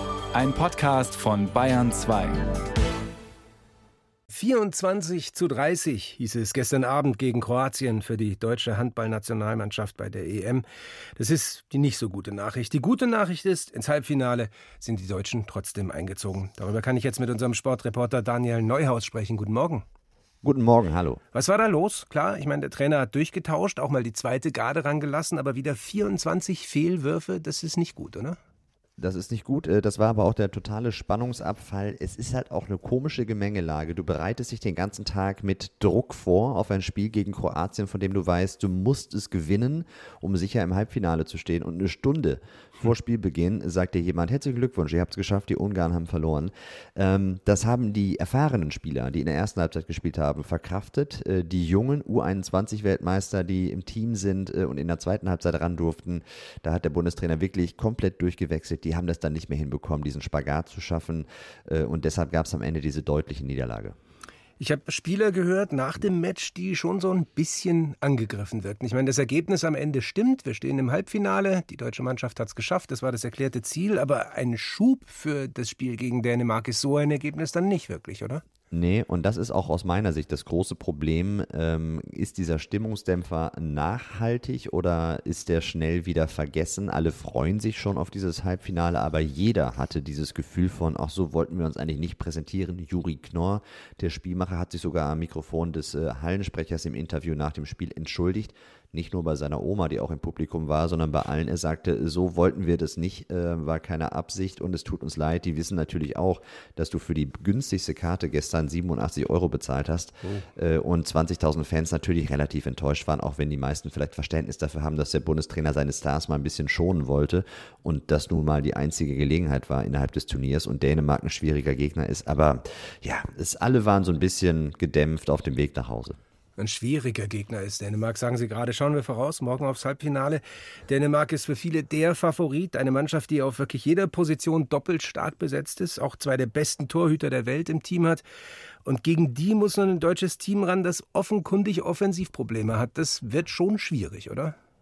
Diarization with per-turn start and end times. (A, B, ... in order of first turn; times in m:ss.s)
0:00.3-0:02.4 A
0:04.3-0:10.6 B
0:11.2-0:19.8 B
0:20.4-0:21.2 C
0:21.3-0:28.4 B
0:29.0-1:04.0 C
1:04.6-1:18.4 B
1:18.7-2:06.2 C
2:06.6-2:18.2 B
2:18.8-2:24.6 B